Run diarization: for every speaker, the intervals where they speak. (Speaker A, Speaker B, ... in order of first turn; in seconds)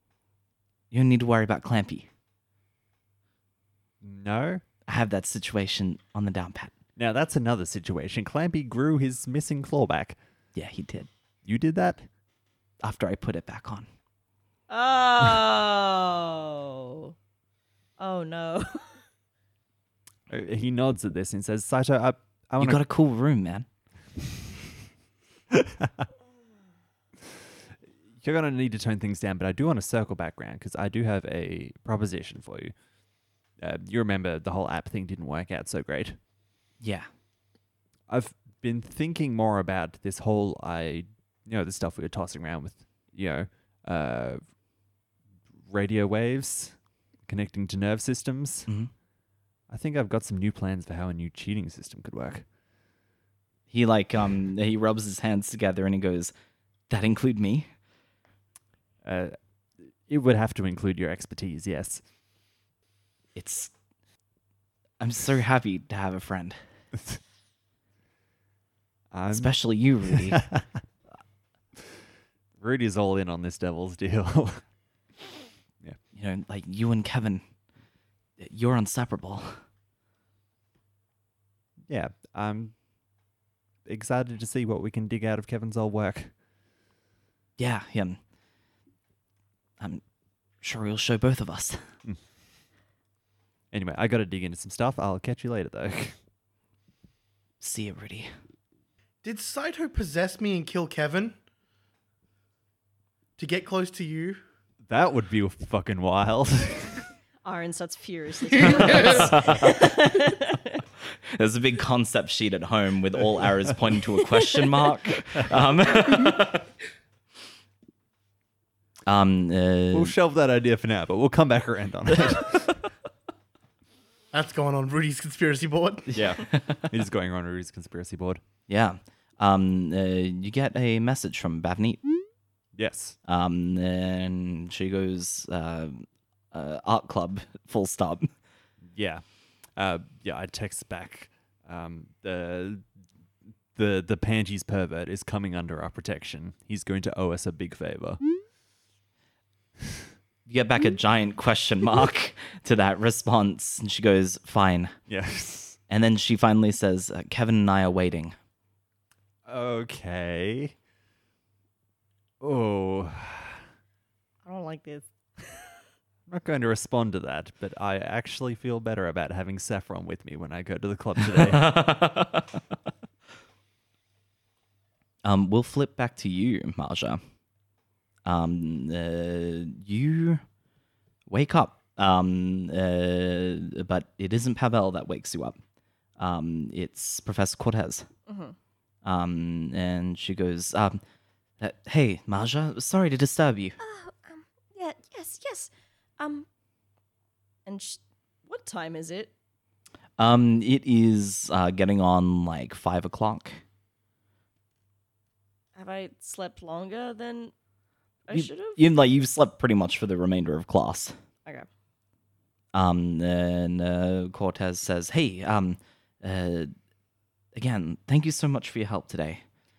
Speaker A: 0.9-2.1, 4.9-6.7, 10.5-11.1, 12.8-13.9, 22.6-23.6, 36.8-37.1, 48.7-48.9, 53.7-56.3, 56.9-57.7, 63.3-63.7, 65.0-66.6, 69.3-70.5, 76.1-77.4, 78.4-79.6, 87.6-88.2, 89.8-90.0, 90.6-91.8, 97.6-98.3, 108.8-109.7, 111.4-116.7, 119.1-120.1, 126.1-126.8, 128.7-132.0, 133.2-138.3, 150.4-154.9, 155.9-158.3, 171.5-172.4, 175.2-177.2, 178.2-180.4, 181.3-185.6, 186.2-188.1, 189.0-191.0, 191.6-193.8, 200.2-203.6, 208.3-211.2, 212.7-216.7, 217.5-219.4
Speaker B: 4.0-4.6, 7.0-10.2, 11.4-12.1, 20.3-22.8, 28.2-32.9, 33.5-36.2, 38.1-44.6, 45.6-48.7, 49.7-52.5, 59.0-62.1, 69.1-70.8, 72.5-75.1, 81.9-82.8, 83.8-86.4, 92.0-92.3, 93.7-96.2, 104.8-107.1, 119.9-122.8, 126.1-128.4, 132.7-133.2, 138.8-143.1, 143.7-148.3, 155.1-155.8, 159.4-160.8, 162.4-163.6, 166.3-171.8
Speaker C: 14.7-17.1, 18.0-19.0, 107.4-110.8, 114.5-115.0, 164.4-165.9, 188.3-188.5, 193.8-196.4, 197.7-199.3, 205.7-207.5, 208.3-208.8
Speaker D: 99.2-101.3, 103.4-104.4, 124.3-126.1